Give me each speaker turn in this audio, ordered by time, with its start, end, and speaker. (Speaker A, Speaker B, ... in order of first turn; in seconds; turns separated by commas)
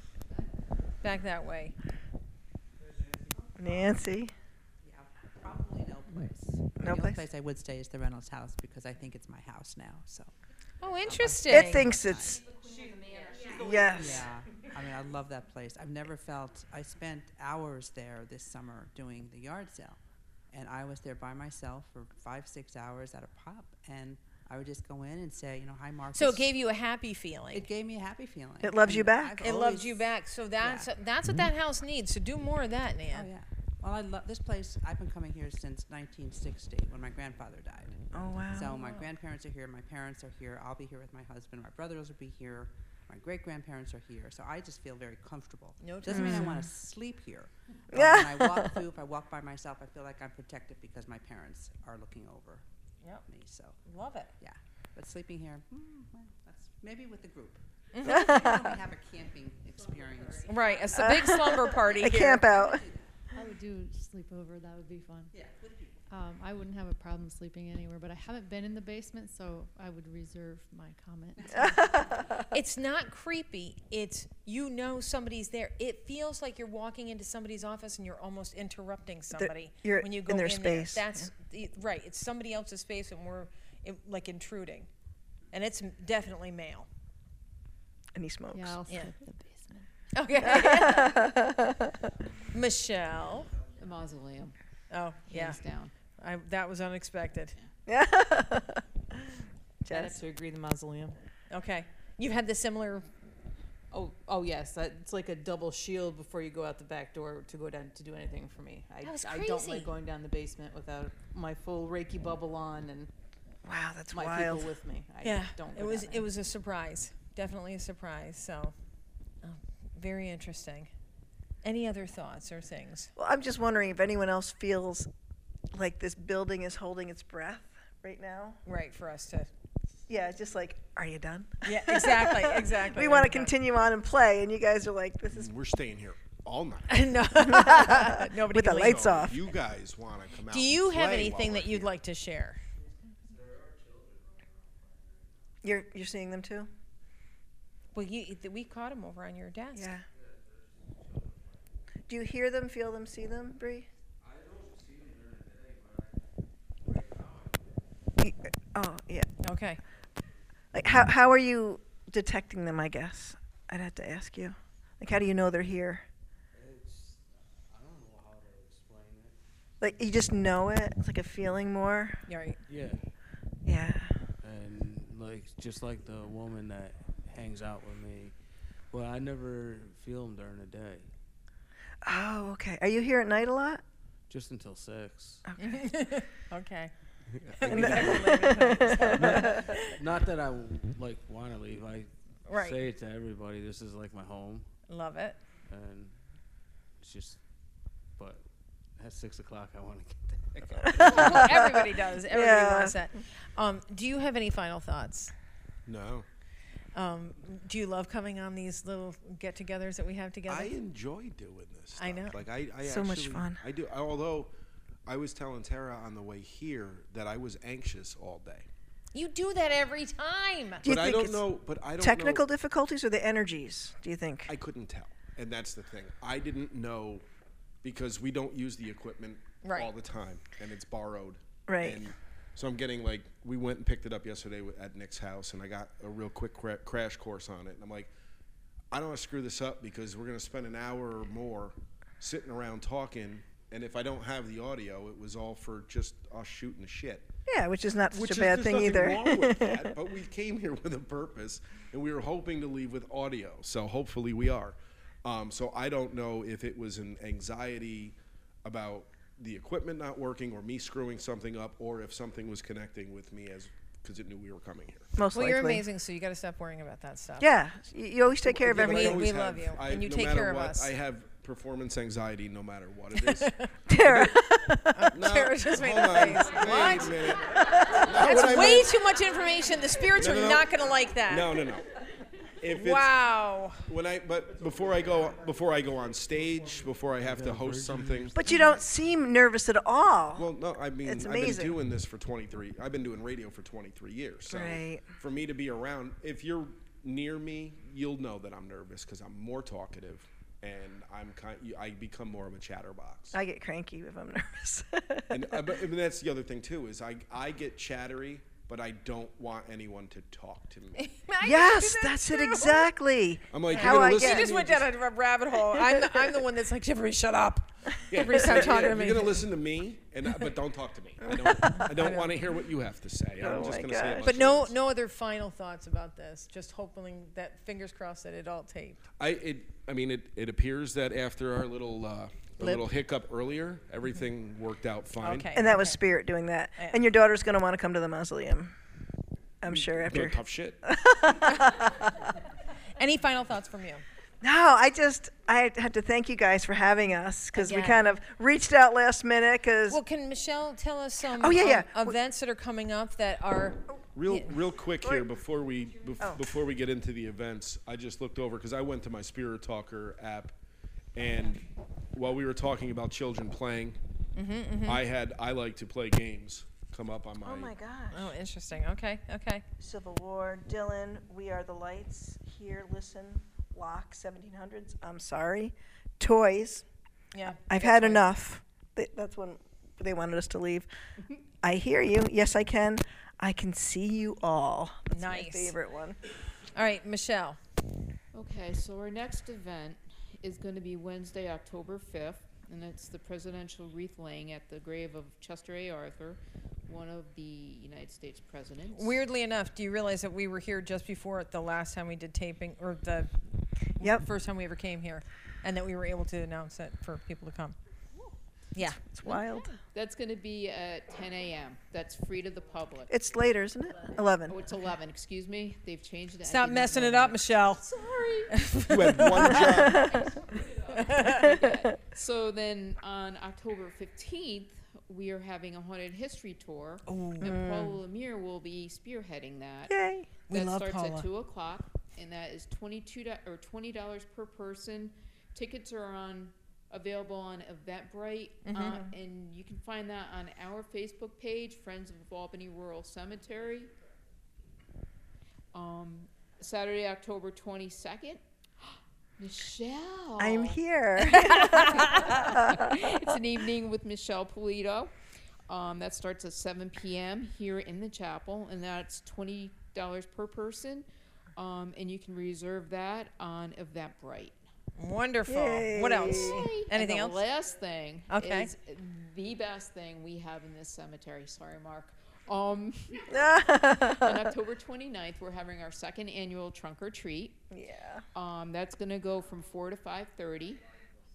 Speaker A: 1.0-1.7, Speaker B: 3.6-4.3, Speaker C: 4.8-10.3, Speaker B: 6.8-7.2, Speaker A: 10.8-11.9, Speaker C: 11.0-20.0, Speaker B: 11.5-12.4, Speaker B: 13.5-14.3, Speaker C: 20.5-26.5, Speaker A: 26.1-27.7, Speaker C: 27.5-30.0, Speaker B: 28.6-29.4, Speaker A: 29.4-33.3, Speaker C: 30.6-30.9, Speaker C: 33.1-38.0, Speaker B: 38.1-38.8, Speaker C: 38.5-52.6, Speaker A: 45.8-46.6, Speaker B: 46.1-46.7, Speaker B: 47.9-48.7, Speaker C: 53.3-53.8, Speaker A: 53.8-54.3, Speaker C: 54.4-60.8, Speaker A: 57.9-58.5, Speaker B: 58.0-58.8, Speaker A: 60.5-62.5, Speaker B: 60.9-62.8, Speaker C: 62.0-63.1, Speaker D: 63.3-65.3, Speaker C: 65.3-65.9, Speaker D: 66.1-72.2, Speaker C: 71.4-72.1, Speaker B: 71.5-72.5, Speaker A: 72.5-84.9, Speaker B: 79.3-81.2, Speaker A: 85.5-86.9, Speaker B: 88.2-88.8, Speaker D: 88.5-89.8, Speaker A: 90.1-91.3, Speaker B: 90.4-91.9, Speaker A: 92.5-93.5, Speaker E: 93.8-94.5, Speaker A: 94.9-95.6, Speaker E: 95.3-95.9, Speaker A: 96.2-97.5, Speaker B: 97.9-98.8, Speaker B: 99.9-100.2, Speaker F: 99.9-101.2, Speaker A: 101.5-103.1, Speaker F: 103.9-113.1, Speaker A: 109.0-109.9, Speaker B: 113.6-114.7, Speaker F: 114.1-116.3, Speaker A: 115.2-118.7, Speaker A: 119.4-120.9, Speaker A: 121.6-123.1, Speaker B: 123.2-125.1, Speaker B: 125.7-128.6, Speaker A: 128.6-129.5, Speaker B: 130.1-135.5, Speaker A: 131.6-133.5, Speaker G: 135.3-137.1, Speaker A: 136.9-139.3, Speaker B: 137.4-139.4, Speaker G: 138.7-141.9, Speaker A: 140.5-142.6, Speaker B: 145.6-146.7, Speaker A: 147.9-150.0, Speaker B: 149.8-150.0, Speaker B: 152.1-153.9, Speaker B: 158.2-159.3, Speaker A: 159.4-159.8, Speaker B: 160.7-166.0, Speaker H: 166.5-169.3, Speaker B: 169.8-172.2, Speaker A: 172.3-172.6, Speaker H: 172.7-173.0, Speaker B: 173.7-174.1, Speaker H: 174.4-178.3, Speaker H: 178.9-181.1, Speaker B: 182.0-183.8, Speaker H: 184.3-185.4, Speaker B: 185.5-185.8, Speaker A: 185.6-186.9, Speaker H: 187.3-194.7, Speaker A: 187.6-190.0, Speaker B: 187.6-189.8, Speaker A: 192.5-192.8, Speaker A: 194.9-195.4, Speaker H: 195.7-196.1, Speaker H: 197.0-197.4, Speaker H: 199.0-201.5, Speaker B: 200.8-202.9, Speaker A: 201.0-205.3, Speaker G: 205.8-206.2, Speaker A: 206.9-210.7, Speaker G: 210.5-214.5, Speaker A: 211.9-212.3, Speaker B: 212.8-213.6, Speaker G: 215.1-218.7, Speaker A: 219.1-220.8, Speaker G: 220.8-222.4, Speaker B: 220.8-221.4, Speaker B: 222.0-224.5, Speaker G: 224.5-227.2, Speaker G: 227.8-238.1, Speaker A: 229.6-229.9, Speaker B: 231.7-232.1, Speaker G: 238.9-247.2, Speaker B: 247.5-249.9, Speaker G: 248.1-265.1, Speaker B: 265.2-265.8, Speaker A: 265.3-267.5, Speaker B: 267.4-269.3, Speaker A: 268.5-270.9, Speaker G: 268.6-274.4, Speaker A: 273.1-273.7, Speaker B: 273.9-275.1, Speaker A: 274.9-277.2, Speaker G: 275.1-278.9, Speaker A: 278.0-281.5, Speaker G: 280.1-280.7, Speaker G: 281.3-281.9, Speaker G: 282.6-283.2, Speaker A: 282.7-283.8, Speaker G: 283.8-288.4, Speaker H: 287.2-288.4, Speaker B: 288.3-290.5, Speaker G: 290.4-303.4, Speaker B: 291.0-291.8, Speaker B: 294.5-295.1, Speaker B: 303.3-305.6, Speaker G: 305.3-311.1, Speaker A: 311.0-312.9, Speaker B: 311.4-314.5, Speaker G: 313.5-314.9, Speaker A: 313.7-319.4, Speaker B: 315.9-316.2, Speaker G: 318.1-324.7, Speaker B: 318.2-318.9, Speaker B: 321.3-321.9, Speaker A: 321.9-322.3, Speaker B: 323.4-324.3, Speaker A: 324.2-329.0, Speaker G: 329.2-335.5, Speaker B: 332.6-332.8, Speaker A: 335.2-336.0, Speaker B: 335.5-338.7, Speaker A: 336.8-337.0, Speaker B: 339.6-342.1, Speaker G: 339.7-340.8, Speaker A: 343.0-344.0, Speaker B: 344.4-350.0, Speaker A: 347.5-348.0, Speaker A: 349.9-354.5, Speaker B: 351.4-352.1, Speaker G: 354.1-360.5, Speaker B: 356.2-356.5, Speaker G: 361.1-361.6, Speaker G: 362.1-364.0, Speaker A: 364.3-365.0, Speaker G: 364.9-367.7, Speaker B: 367.4-368.3, Speaker A: 368.1-369.6, Speaker B: 369.8-376.8, Speaker A: 377.3-378.3, Speaker B: 377.7-380.9, Speaker B: 381.6-386.2, Speaker A: 385.1-385.8, Speaker A: 386.7-387.6, Speaker E: 388.3-399.2, Speaker A: 398.9-403.3, Speaker A: 404.0-407.8, Speaker A: 408.7-409.4, Speaker B: 409.0-409.7, Speaker E: 409.2-413.1, Speaker B: 413.1-414.6, Speaker E: 414.5-418.6, Speaker A: 416.4-417.9, Speaker A: 418.5-420.1, Speaker G: 418.8-420.1, Speaker B: 419.6-420.3, Speaker E: 420.9-429.9, Speaker A: 420.9-421.6, Speaker B: 421.3-421.9, Speaker A: 427.1-427.6, Speaker B: 427.4-428.0, Speaker B: 429.9-430.3, Speaker A: 430.5-431.2, Speaker E: 430.5-443.9, Speaker A: 438.6-439.1, Speaker E: 445.7-450.8, Speaker B: 450.4-453.0, Speaker A: 451.2-452.3, Speaker E: 451.5-455.1, Speaker E: 455.7-464.6, Speaker A: 465.0-467.4, Speaker B: 465.5-466.7, Speaker E: 466.2-473.3, Speaker A: 468.3-468.7, Speaker B: 473.3-474.5, Speaker E: 474.1-477.6, Speaker B: 477.7-478.2, Speaker E: 478.3-480.8